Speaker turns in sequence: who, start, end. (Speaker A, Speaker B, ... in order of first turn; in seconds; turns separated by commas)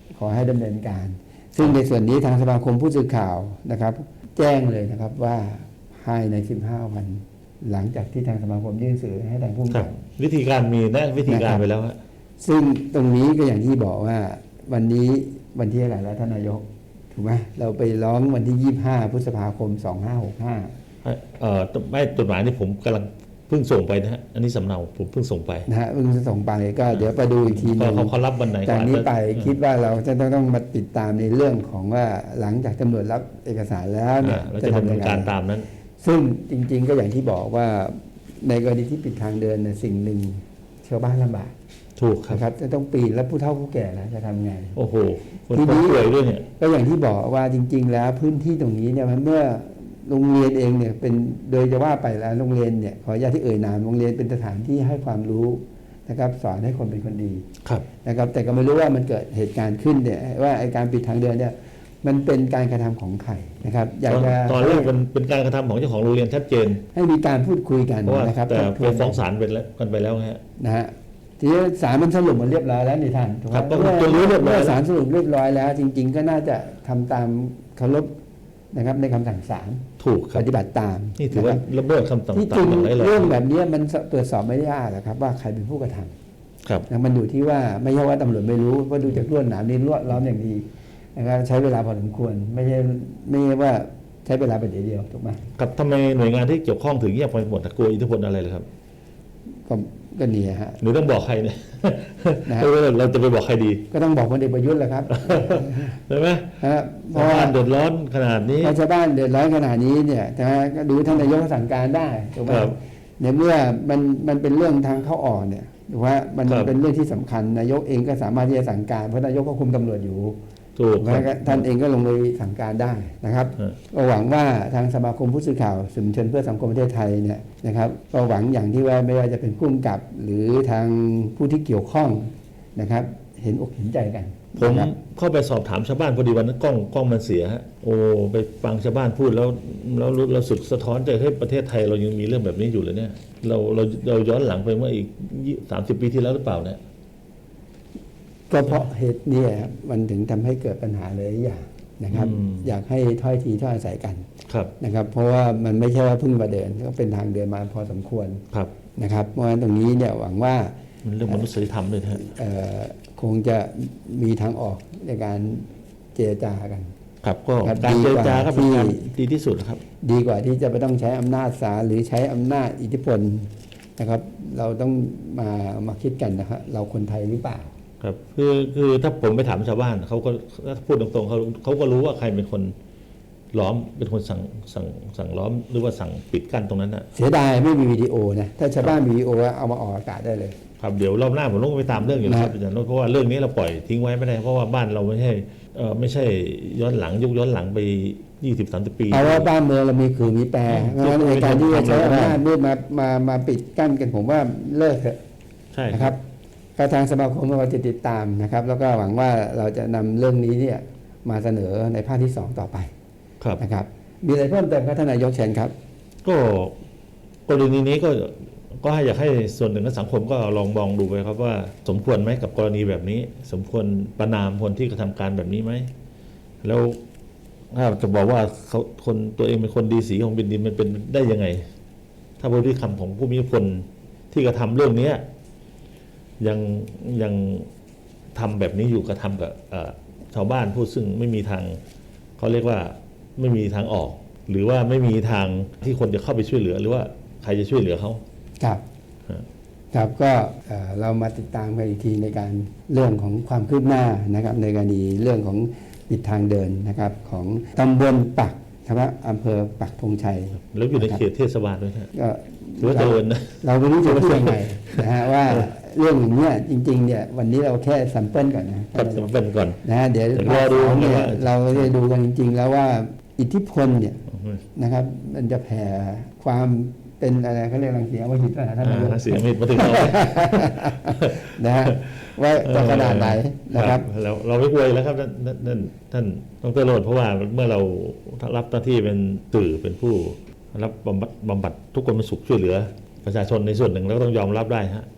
Speaker A: 0.1-9.9, Speaker B: 9.7-12.0, Speaker A: 11.2-11.6, Speaker A: 12.4-20.7, Speaker B: 21.0-25.7, Speaker A: 25.6-35.3, Speaker B: 27.4-29.5, Speaker B: 34.2-35.7, Speaker A: 36.0-41.5, Speaker B: 42.0-42.4, Speaker A: 42.3-44.8, Speaker B: 44.8-46.4, Speaker A: 45.5-57.4, Speaker A: 58.0-64.9, Speaker B: 64.1-66.8, Speaker A: 66.9-69.2, Speaker B: 68.0-70.4, Speaker A: 70.6-78.1, Speaker B: 73.5-74.8, Speaker A: 78.7-81.6, Speaker B: 80.0-80.5, Speaker B: 81.2-83.4, Speaker A: 82.3-86.1, Speaker A: 86.9-95.4, Speaker B: 95.5-98.7, Speaker A: 99.7-100.8, Speaker B: 100.8-103.8, Speaker A: 103.9-106.0, Speaker B: 105.1-106.6, Speaker A: 106.6-107.6, Speaker B: 107.1-108.7, Speaker A: 108.6-120.4, Speaker B: 112.5-112.8, Speaker B: 116.5-116.7, Speaker B: 120.8-121.6, Speaker A: 121.0-134.9, Speaker B: 134.6-146.8, Speaker A: 148.5-154.3, Speaker B: 152.1-152.7, Speaker B: 154.5-154.7, Speaker A: 154.8-158.4, Speaker A: 158.9-160.7, Speaker B: 161.0-162.3, Speaker A: 162.1-166.9, Speaker B: 167.2-169.8, Speaker A: 167.6-169.0, Speaker A: 170.0-177.7, Speaker B: 178.0-182.7, Speaker B: 183.5-187.1, Speaker A: 187.1-190.6, Speaker B: 190.8-199.5, Speaker A: 192.2-192.5, Speaker A: 199.1-205.2, Speaker B: 200.7-202.4, Speaker B: 205.7-206.2, Speaker A: 205.9-206.2, Speaker A: 206.8-212.9, Speaker A: 213.6-215.7, Speaker B: 216.2-216.7, Speaker B: 217.5-225.9, Speaker B: 226.6-227.0, Speaker B: 227.7-231.7, Speaker B: 232.4-235.2, Speaker B: 236.4-237.7, Speaker B: 238.3-241.8, Speaker B: 242.4-248.2, Speaker A: 249.9-261.2, Speaker B: 260.6-262.1, Speaker A: 262.1-269.3, Speaker B: 262.8-265.6, Speaker B: 268.9-269.8, Speaker A: 269.8-274.2, Speaker B: 270.3-271.9, Speaker B: 274.3-274.6, Speaker A: 274.8-284.0, Speaker B: 278.8-281.5, Speaker B: 282.1-295.1